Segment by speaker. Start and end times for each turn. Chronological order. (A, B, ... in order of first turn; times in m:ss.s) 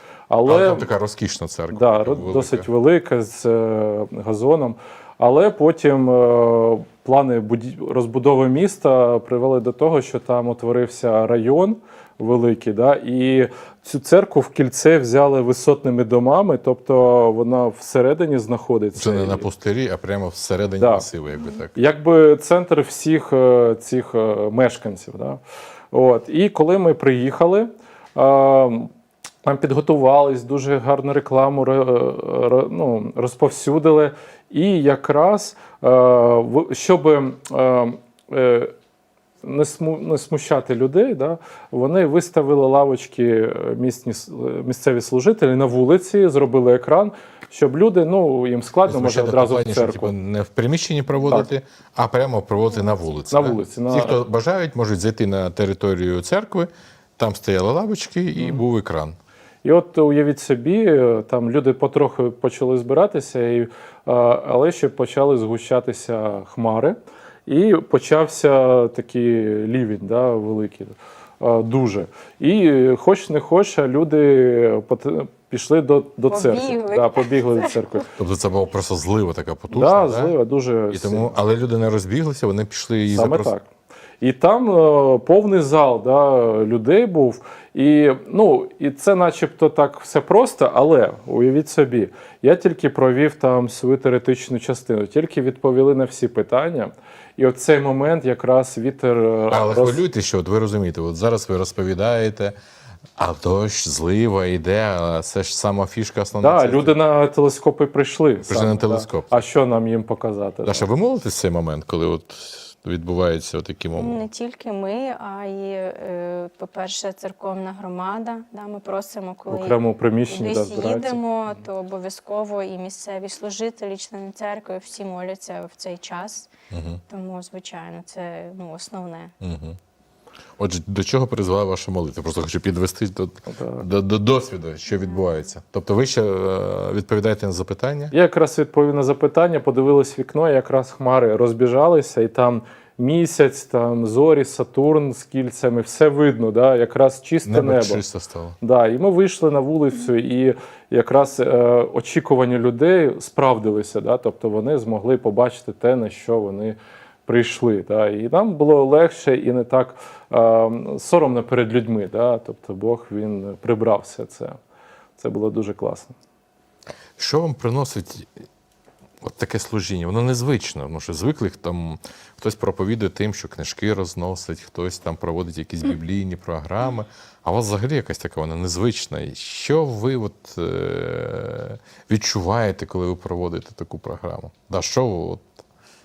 0:00.3-0:00.9 A
0:00.4-0:02.7 B
0:01.7-0:19.4 A
0:18.9-0:21.7 B
0:20.8-0:21.0 A
0:21.7-0:25.4 A
0:25.9-0:28.9 A
0:29.4-0:38.7 A
0:39.4-0:50.1 A
0:48.8-0:59.2 B
0:53.3-0:54.2 A
0:58.4-0:58.6 A
0:59.6-1:18.1 A
1:16.3-1:17.8 C
1:18.2-1:20.3 B
1:19.7-1:21.3 A
1:20.9-1:23.5 B
1:23.1-1:23.7 A
1:24.2-1:40.0 A
1:39.5-1:42.6 B
1:43.2-1:47.0 B
1:46.4-1:50.8 A
1:48.4-1:49.3 B
1:50.6-1:54.2 B
1:54.0-2:06.5 C
1:59.5-2:01.2 A
2:06.7-2:07.0 B
2:07.1-2:09.3 C
2:09.4-2:09.8 B
2:10.6-2:18.1 B
2:13.5-2:13.8 A
2:18.1-2:28.0 A
2:27.4-2:28.6 B
2:28.6-2:44.6 A
2:45.2-2:46.2 A
2:47.2-2:48.4 B
2:49.2-3:05.6 B